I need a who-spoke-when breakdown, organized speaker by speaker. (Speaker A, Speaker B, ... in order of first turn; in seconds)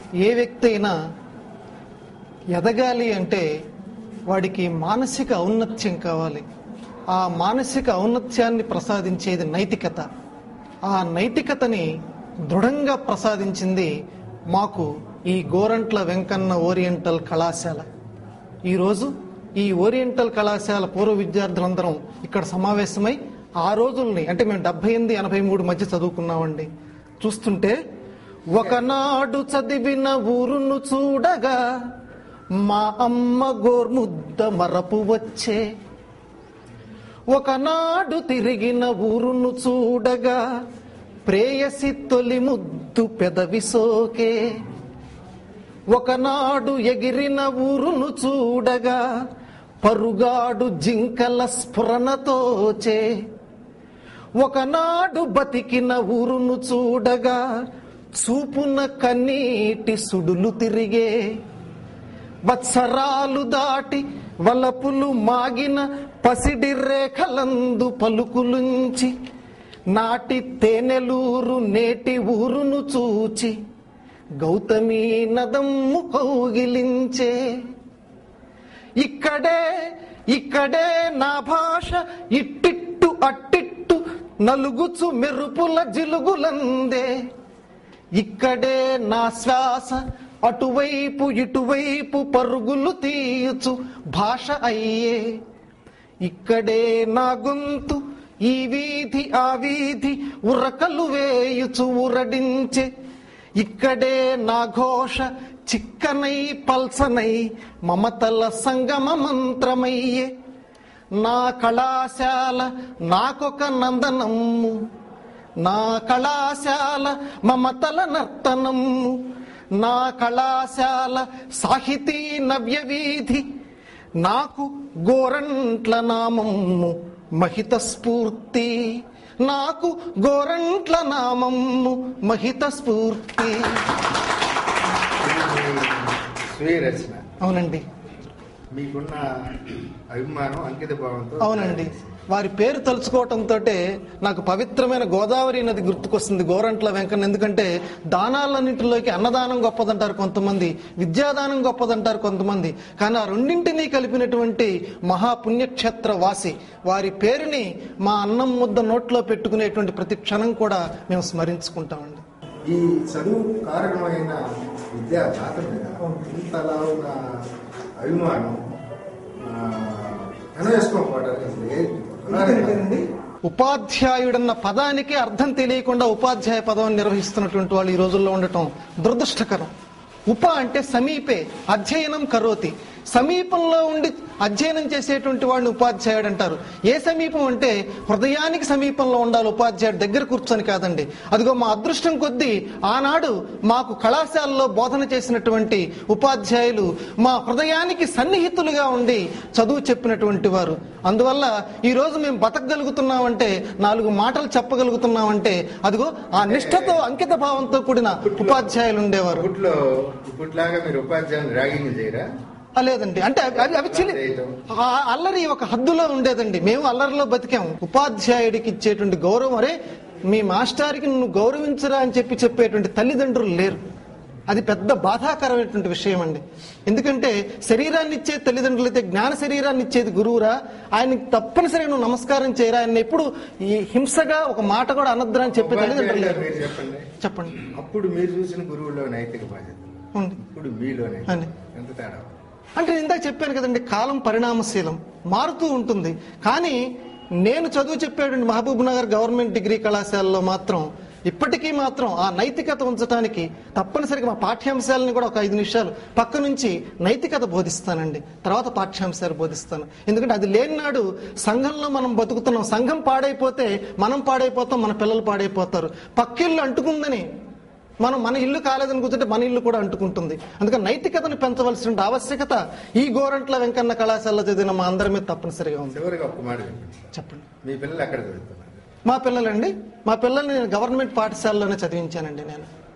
Speaker A: 0.2-0.9, 2.6-3.5, 4.3-6.4, 7.1-10.1, 10.9-11.9, 12.5-13.9, 14.5-17.9, 18.7-26.7, 27.2-27.8, 28.5-31.6, 32.6-35.6, 37.3-40.4, 41.3-44.4, 45.9-49.0, 49.8-53.1, 54.4-57.4, 58.1-61.1, 62.5-69.1, 69.9-73.5, 74.4-77.3, 79.0-79.6, 80.3-87.1, 88.2-95.2, 96.2-102.9, 103.6-110.3, 111.2-114.8, 115.6-119.2, 119.8-123.4, 124.2-128.8, 129.4-133.7, 137.4-137.8, 141.4-162.2, 172.3-179.7, 180.3-209.5, 212.8-214.2, 214.7-219.8, 220.3-223.8, 224.5-236.7, 237.2-237.7, 240.2-240.4, 242.8-246.8, 247.4-267.2, 268.0-276.0, 277.1-277.5, 279.1-282.7
Speaker B: 135.2-137.3, 138.7-142.2, 162.7-164.4, 164.9-167.4, 168.0-168.6, 169.4-172.9, 206.4-207.2, 208.2-208.8, 209.3-212.3, 213.5-214.6, 235.5-237.1, 237.6-242.4, 275.9-278.9